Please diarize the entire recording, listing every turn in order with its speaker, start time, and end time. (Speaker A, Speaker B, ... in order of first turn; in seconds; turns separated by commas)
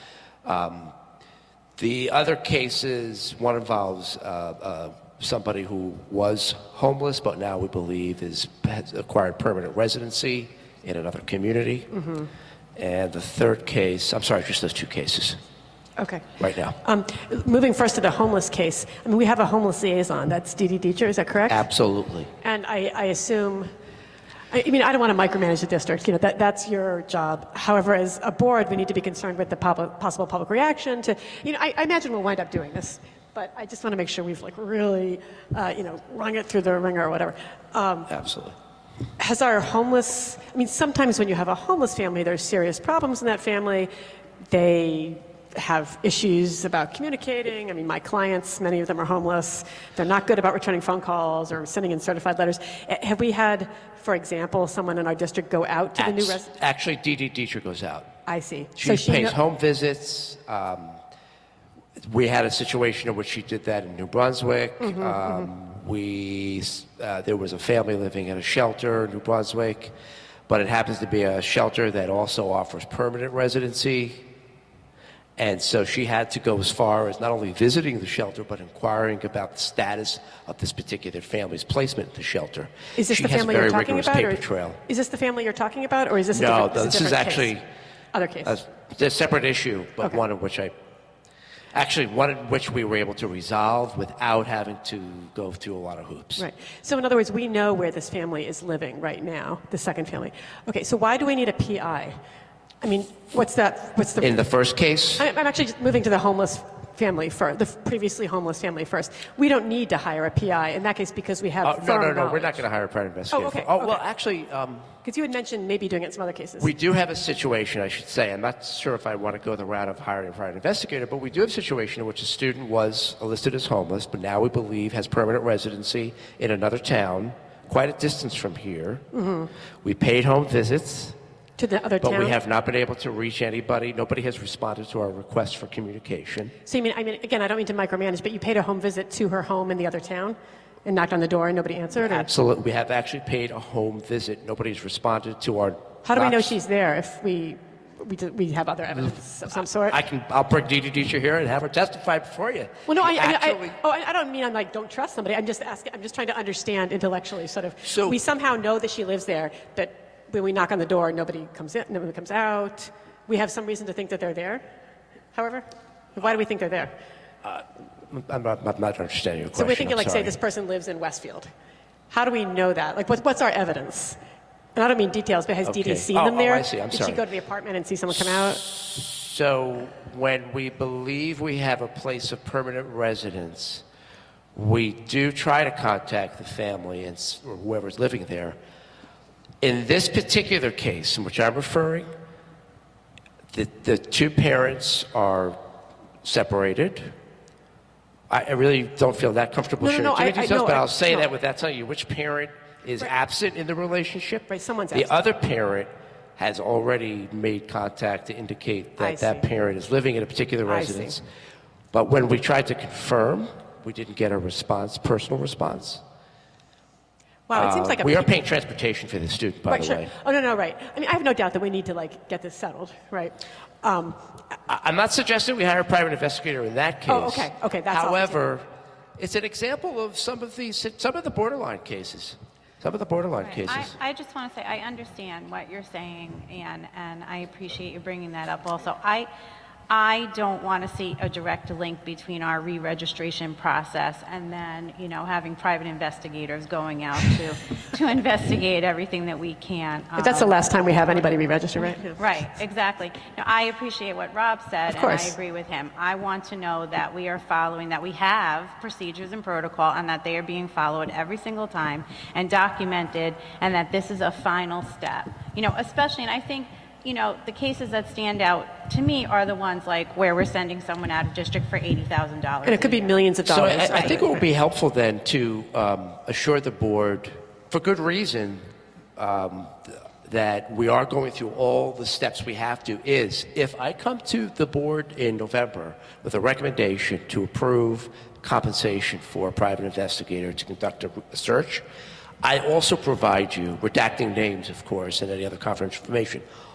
Speaker A: 0.4-0.9, Speaker A: 1.8-11.9, Speaker B: 11.9-12.3, Speaker A: 12.8-15.4, Speaker B: 16.0-16.3, Speaker A: 16.4-16.8, Speaker B: 16.8-21.6, Speaker A: 21.5-22.3, Speaker B: 22.4-23.7, Speaker B: 24.5-38.1, Speaker A: 38.1-38.5, Speaker B: 39.2-43.9, Speaker B: 44.5-56.5, Speaker A: 56.0-58.1, Speaker B: 58.3-59.4, Speaker A: 58.8-61.0, Speaker A: 62.0-69.9, Speaker B: 64.8-65.5, Speaker A: 70.5-74.2, Speaker A: 75.4-84.8, Speaker B: 83.0-87.5, Speaker A: 86.3-87.6, Speaker B: 88.1-88.6, Speaker A: 88.5-90.7, Speaker A: 91.7-96.5, Speaker B: 96.4-102.2, Speaker B: 102.8-104.4, Speaker A: 104.2-105.3, Speaker B: 105.2-112.6, Speaker A: 111.6-114.9, Speaker B: 113.3-114.0, Speaker B: 115.0-116.7, Speaker A: 116.6-129.0, Speaker B: 129.1-129.5, Speaker A: 129.8-131.2, Speaker B: 131.6-132.3, Speaker A: 132.0-136.5, Speaker B: 136.7-142.3, Speaker A: 142.0-146.5, Speaker B: 146.0-150.0, Speaker A: 149.9-153.8, Speaker B: 152.9-164.6, Speaker A: 157.8-158.2, Speaker B: 165.3-166.9, Speaker A: 167.4-170.3, Speaker B: 169.5-171.5, Speaker B: 172.1-174.2, Speaker B: 174.8-178.6, Speaker A: 175.6-177.2, Speaker A: 178.2-183.8, Speaker A: 184.5-188.6, Speaker A: 189.6-192.1, Speaker A: 193.5-195.6, Speaker A: 196.2-197.1, Speaker A: 198.3-211.2, Speaker B: 199.8-201.3, Speaker B: 204.5-205.2, Speaker B: 209.0-209.4, Speaker B: 210.7-211.2, Speaker A: 211.9-216.0, Speaker B: 217.5-218.3, Speaker A: 217.5-220.1, Speaker B: 219.7-224.2, Speaker A: 224.7-228.6, Speaker B: 227.1-228.4, Speaker A: 229.2-233.9, Speaker C: 233.5-239.3, Speaker C: 239.9-250.7, Speaker B: 250.2-252.2, Speaker C: 252.2-273.1, Speaker B: 254.9-255.3, Speaker B: 272.6-274.4, Speaker A: 273.4-278.6, Speaker A: 279.2-291.8, Speaker A: 292.4-296.4